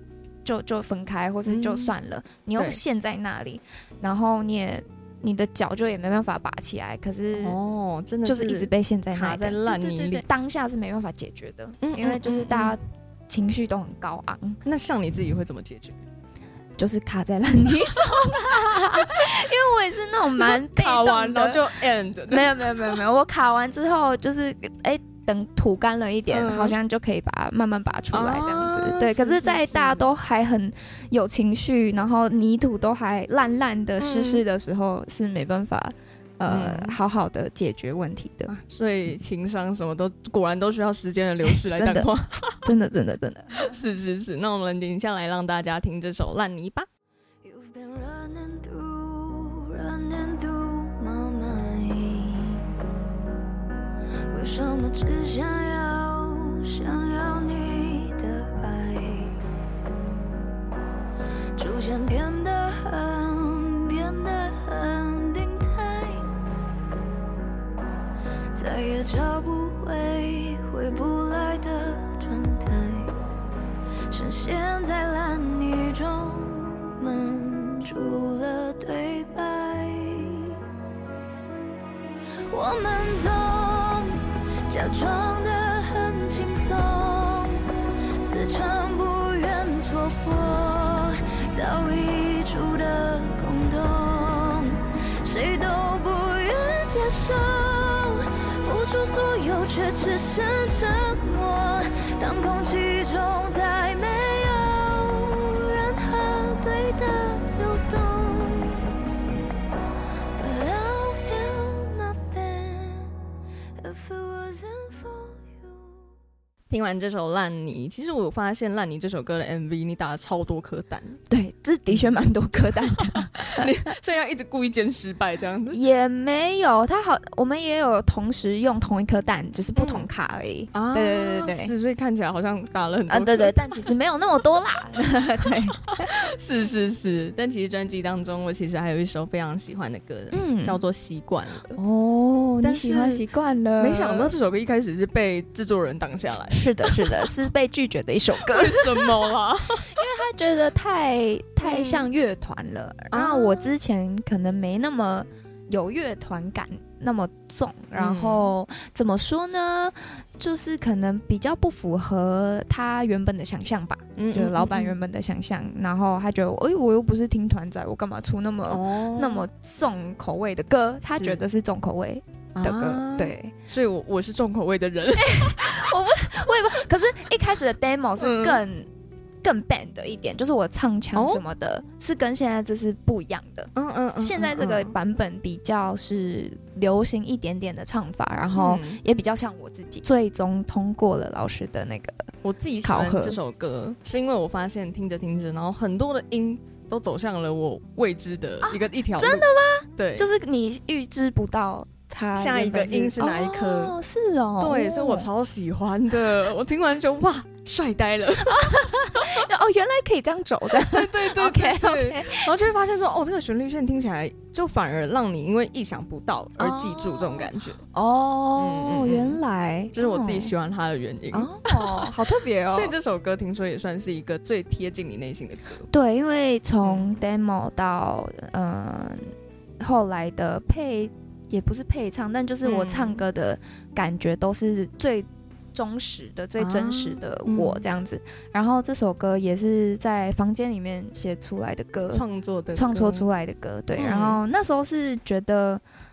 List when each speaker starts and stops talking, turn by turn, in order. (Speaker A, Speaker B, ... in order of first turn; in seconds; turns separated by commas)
Speaker A: 0.4-7.6, Speaker B: 1.4-1.9, Speaker B: 7.4-10.2, Speaker A: 8.2-14.6, Speaker B: 11.8-12.8, Speaker B: 14.6-16.0, Speaker A: 16.8-21.7, Speaker B: 17.9-19.2, Speaker B: 20.4-23.0, Speaker A: 22.3-38.5, Speaker B: 26.3-26.8, Speaker B: 28.1-30.1, Speaker B: 34.0-34.4, Speaker B: 36.5-37.0, Speaker B: 38.5-42.6, Speaker A: 41.5-42.1, Speaker A: 42.6-43.6, Speaker B: 43.5-46.9, Speaker C: 47.4-52.7, Speaker C: 54.3-59.4, Speaker C: 61.5-66.3, Speaker C: 68.5-73.1, Speaker C: 74.1-80.5, Speaker C: 82.5-87.7, Speaker C: 88.2-108.8, Speaker C: 110.4-113.1, Speaker C: 113.8-116.0, Speaker B: 116.7-121.2, Speaker A: 121.3-123.7, Speaker B: 121.9-125.8, Speaker A: 125.7-131.7, Speaker B: 129.8-130.1, Speaker B: 130.7-133.9, Speaker A: 133.1-136.1, Speaker B: 135.9-141.8, Speaker A: 140.3-140.8, Speaker A: 141.8-144.3, Speaker B: 142.6-143.2, Speaker B: 143.8-147.3, Speaker A: 146.5-149.2, Speaker B: 148.4-149.9, Speaker A: 149.9-173.5, Speaker B: 151.6-152.1, Speaker B: 153.1-153.7, Speaker B: 157.9-158.5, Speaker B: 164.2-164.9, Speaker B: 168.7-169.4, Speaker B: 171.1-171.4, Speaker B: 172.6-175.9, Speaker A: 175.1-178.9, Speaker B: 178.2-178.6, Speaker A: 179.4-192.3, Speaker B: 181.1-181.4, Speaker B: 183.8-184.9, Speaker B: 188.5-189.0, Speaker B: 192.4-200.3, Speaker A: 192.8-193.4, Speaker A: 198.6-205.3, Speaker B: 202.3-203.9, Speaker B: 204.6-209.4, Speaker A: 208.4-212.5, Speaker B: 210.7-217.8, Speaker A: 216.6-220.5, Speaker B: 218.6-219.4, Speaker B: 219.9-222.1, Speaker A: 221.3-222.9, Speaker B: 222.7-225.9, Speaker A: 225.9-245.8, Speaker B: 226.8-227.2, Speaker B: 232.6-233.2, Speaker B: 236.6-237.8, Speaker B: 242.1-243.3, Speaker B: 243.9-244.4